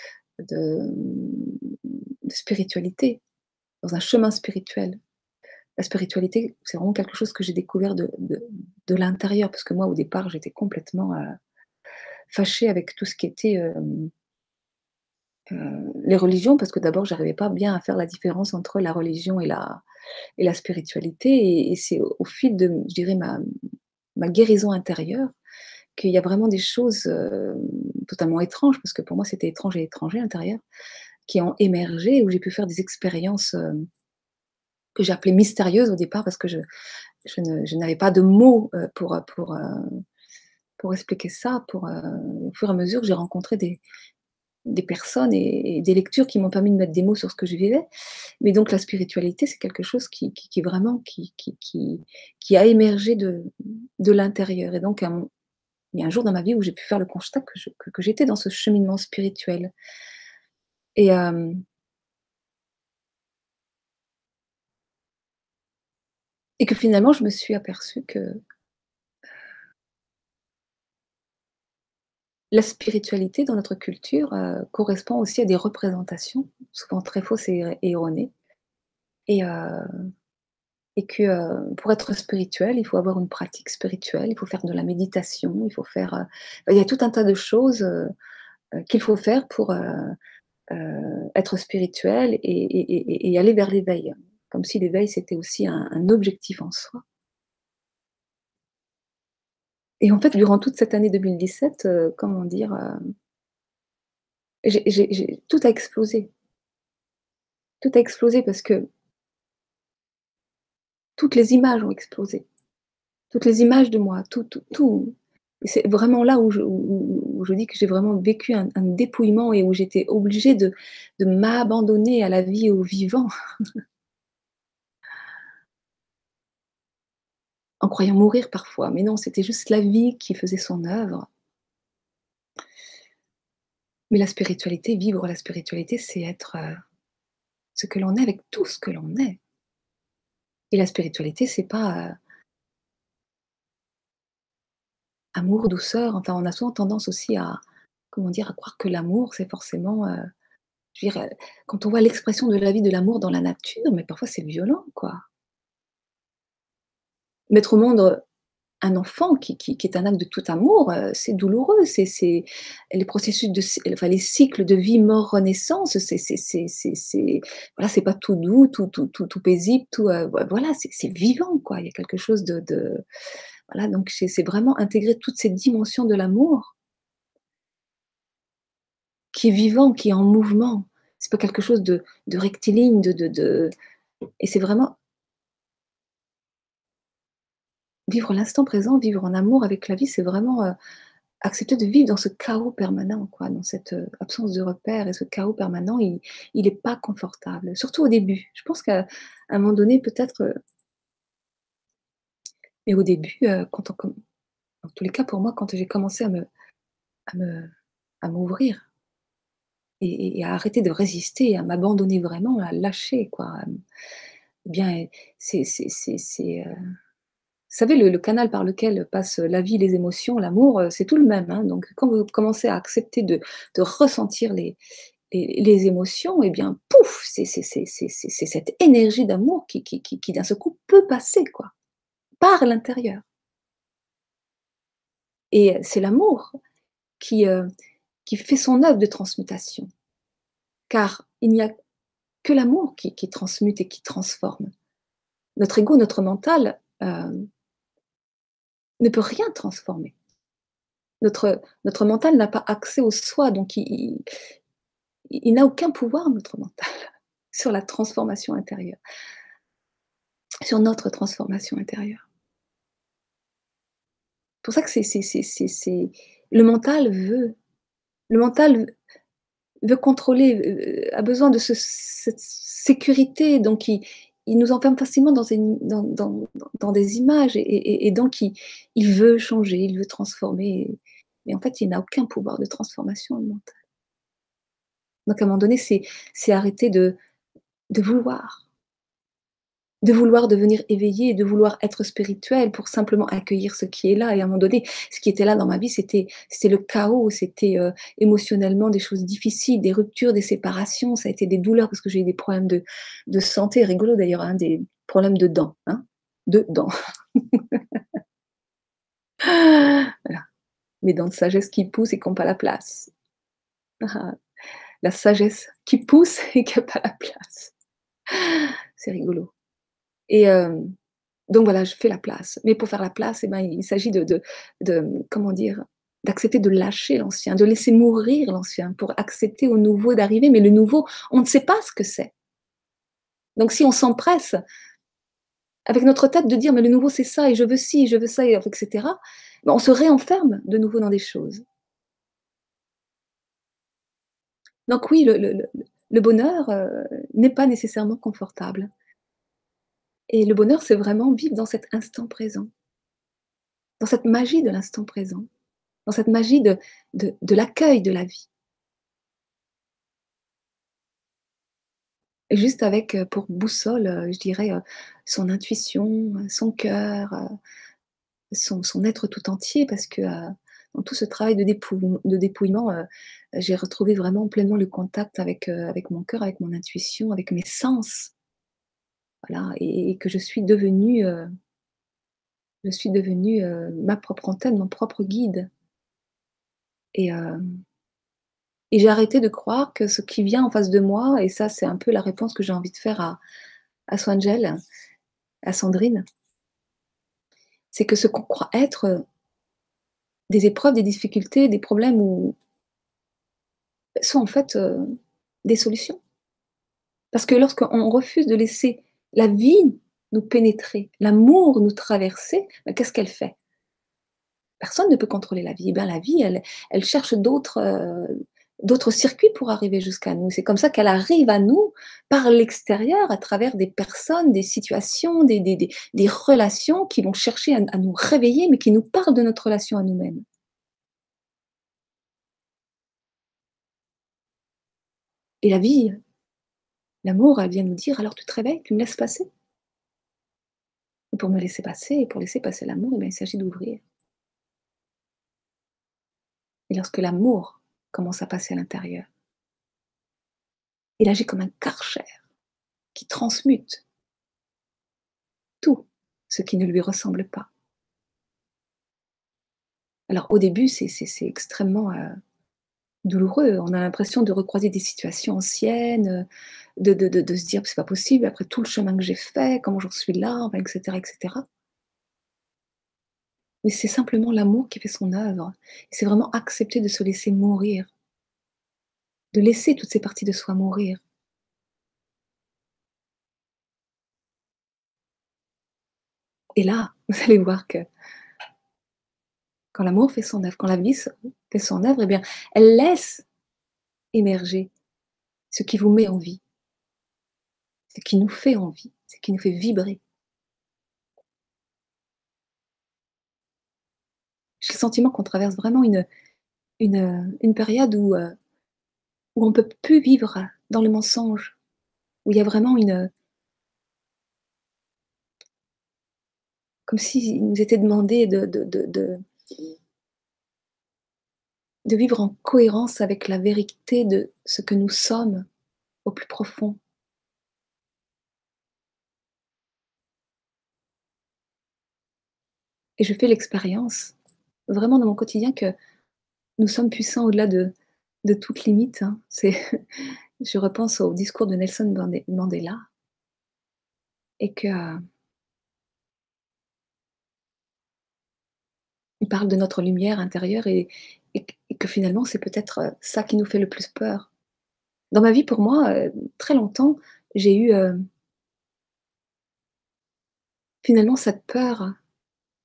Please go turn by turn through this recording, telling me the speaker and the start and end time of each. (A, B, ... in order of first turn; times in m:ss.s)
0:00.4-0:03.2 A
0:03.8-0:05.0 A
0:05.8-0:11.3 A
0:12.3-0:14.1 A
0:15.5-0:19.8 A
0:20.4-0:23.4 A
0:24.2-0:25.3 A
0:26.0-0:30.6 A
0:31.3-0:33.9 A
0:35.0-0:36.6 A
0:37.2-0:40.0 A
0:40.8-0:43.8 A
0:44.7-0:47.8 A
0:48.4-0:55.3 A
0:55.9-0:59.7 A
1:01.0-1:01.6 A
1:06.6-1:08.4 A
1:12.5-1:18.3 A
1:19.3-1:20.0 A
1:21.0-1:28.1 A
1:28.8-1:30.1 A
1:30.7-1:37.0 A
1:40.0-1:43.0 A
1:44.6-1:46.3 A
1:47.8-1:48.8 A
1:51.2-1:52.4 A
1:53.3-2:03.3 A
2:07.8-2:11.3 A
2:14.1-2:16.8 A
2:17.8-2:19.4 A
2:20.7-2:22.1 A
2:25.3-2:27.6 A
2:28.1-2:30.2 A
2:30.9-2:35.2 A
2:37.5-2:38.2 A
2:38.8-2:53.0 A
2:53.7-2:56.7 A
2:59.3-3:03.7 A
3:04.4-3:05.0 A
3:08.1-3:10.7 A
3:11.4-3:20.5 A
3:22.8-3:24.2 A
3:24.8-3:26.5 A
3:27.3-3:28.9 A
3:30.0-3:33.6 A
3:34.7-3:36.7 A
3:37.7-3:44.8 A
3:45.3-3:51.7 A
3:52.4-3:53.2 A
3:55.5-3:56.5 A
3:57.2-3:57.7 A
3:58.2-3:59.9 A
4:00.9-4:01.7 A
4:02.4-4:04.7 A
4:05.6-4:07.5 A
4:09.0-4:10.1 A
4:11.2-4:14.2 A
4:15.3-4:16.9 A
4:17.5-4:19.0 A
4:20.6-4:22.2 A
4:24.6-4:27.6 A
4:28.3-4:28.9 A
4:29.8-4:43.7 A
4:45.3-4:47.2 A
4:47.9-4:48.6 A
4:50.0-5:08.0 A
5:09.4-5:10.4 A
5:11.0-5:13.1 A
5:14.0-5:14.4 A
5:15.0-5:17.7 A
5:18.3-5:19.5 A
5:20.3-5:20.9 A
5:21.5-5:32.3 A
5:33.6-5:34.6 A
5:35.9-5:41.6 A
5:44.9-5:48.9 A
5:50.3-5:52.7 A
5:54.0-5:55.5 A
5:56.0-5:58.5 A
6:02.5-6:07.5 A
6:08.5-6:18.3 A
6:19.4-6:21.5 A
6:22.8-6:25.7 A
6:27.1-6:27.6 A
6:28.9-6:33.4 A
6:34.1-6:34.8 A
6:35.6-6:36.2 A
6:37.9-6:39.2 A
6:40.5-6:42.6 A
6:44.2-6:46.2 A
6:47.3-6:53.5 A
6:54.8-7:10.4 A
7:15.6-7:16.2 A
7:17.2-7:19.5 A
7:21.3-7:24.0 A
7:26.9-7:29.3 A
7:31.2-7:32.4 A
7:33.1-7:34.0 A
7:35.8-7:37.7 A
7:40.3-7:42.3 A
7:43.2-7:46.4 A
7:47.0-7:51.6 A
7:53.8-7:58.1 A
7:59.5-8:01.2 A
8:06.8-8:08.0 A
8:09.9-8:13.4 A
8:14.3-8:14.9 A
8:15.7-8:16.6 A
8:18.1-8:20.2 A
8:24.8-8:26.2 A
8:27.0-8:28.5 A
8:29.6-8:31.8 A
8:32.4-8:33.3 A
8:37.1-8:39.4 A
8:42.0-8:45.6 A
8:46.2-8:47.0 A
8:53.2-8:54.3 A
8:54.9-8:55.9 A
8:56.8-9:03.0 A
9:04.6-9:05.2 A
9:09.4-9:14.5 A
9:15.3-9:18.2 A
9:21.0-9:22.1 A